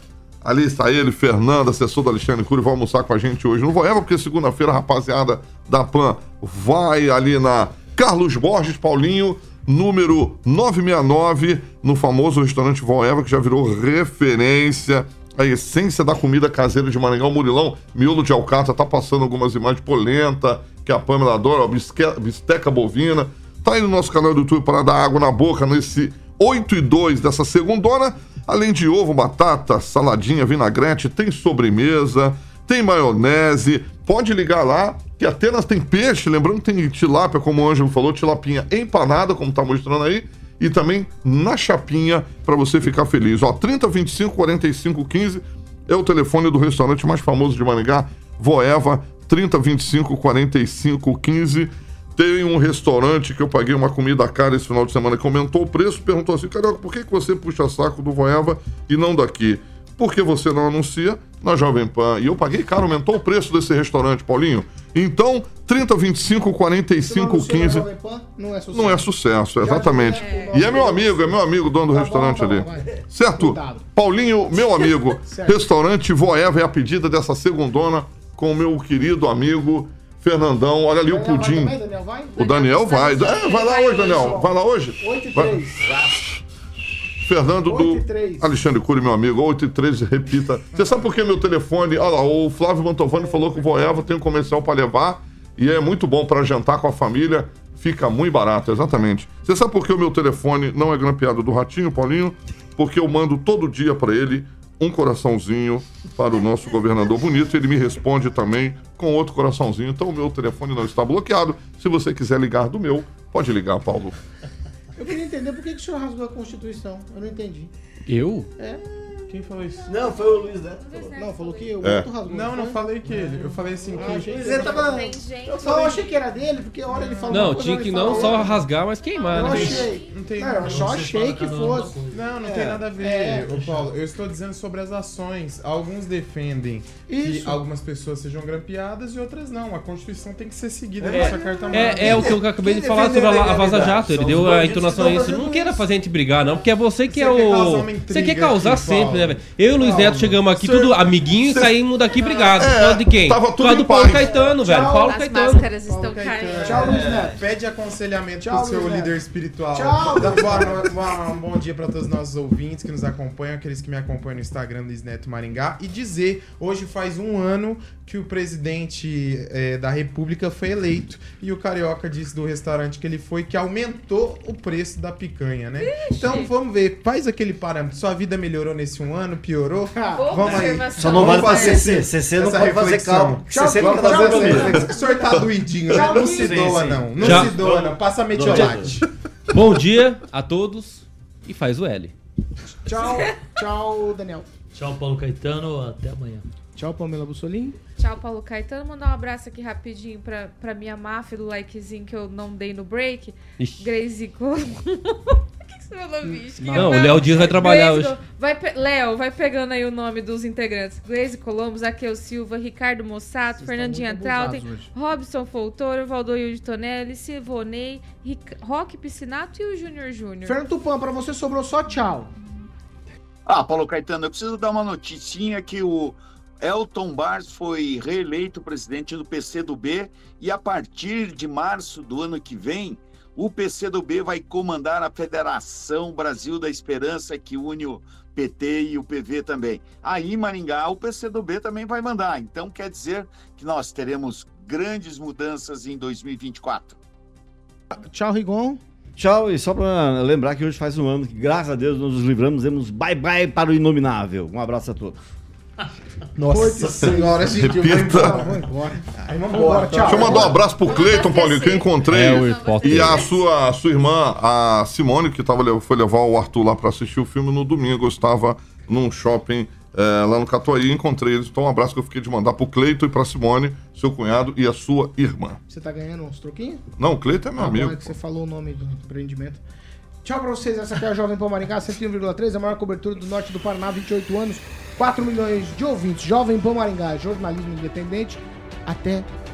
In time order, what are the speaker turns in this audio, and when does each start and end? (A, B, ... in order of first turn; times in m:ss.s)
0:00.4-1:07.9 A
1:07.0-1:13.9 B
1:08.7-1:21.8 A
1:10.1-1:10.9 C
1:14.6-1:15.7 B
1:21.0-1:24.5 B
1:22.4-1:26.0 A
1:22.4-1:24.5 C
1:25.0-1:25.9 B
1:27.2-1:54.2 A
1:27.6-1:28.5 B
1:55.0-1:57.7 B
1:58.1-1:58.5 D
1:59.3-2:00.0 E
1:59.5-2:01.9 C
1:59.9-2:01.2 F
2:01.2-2:02.9 B
2:01.8-2:02.1 A
2:02.2-2:04.9 E
2:03.9-2:08.6 B
2:04.0-2:05.9 F
2:04.0-2:06.1 C
2:06.9-2:07.6 E
2:07.3-2:09.9 D
2:08.0-2:10.4 C
2:09.3-2:13.5 B
2:09.5-2:11.0 E
2:10.6-2:12.3 G
2:12.1-2:22.4 E
2:12.4-2:12.9 F
2:17.1-2:17.6 B
2:21.0-2:25.4 F
2:21.1-2:35.7 D
2:23.0-2:25.8 B
2:27.1-2:31.1 E
2:31.5-2:31.7 A
2:32.5-2:34.3 A
2:34.5-2:35.2 B
2:34.7-2:37.0 C
2:35.7-3:09.1 E
2:36.6-2:37.4 B
2:36.7-2:37.3 F
2:38.4-2:39.2 B
2:39.7-2:40.8 B
2:40.2-2:40.7 F
2:55.8-2:56.5 C
3:00.0-3:01.6 B
3:00.1-3:01.9 C
3:00.5-3:04.8 F
3:03.5-3:05.3 B
3:05.9-3:06.9 B
3:05.9-3:09.0 F
3:07.2-3:07.6 D
3:09.5-3:12.1 D
3:12.8-3:14.5 B
3:14.7-3:16.4 G
3:16.8-3:17.8 B
3:18.0-3:40.6 C
3:23.6-3:23.8 D
3:26.2-3:27.8 B
3:26.7-3:28.2 D
3:33.6-3:34.9 B
3:40.4-3:42.3 B
3:43.4-4:07.0 H
4:07.9-4:08.8 B
4:09.2-4:15.2 F
4:16.4-4:20.6 B
4:16.5-4:20.5 E
4:17.1-4:18.4 A
4:20.0-4:35.6 A
4:20.3-4:23.5 C
4:22.1-4:23.3 D
4:35.7-4:36.8 B
4:37.0-4:38.1 A
4:37.6-4:39.6 B
4:40.2-4:49.3 B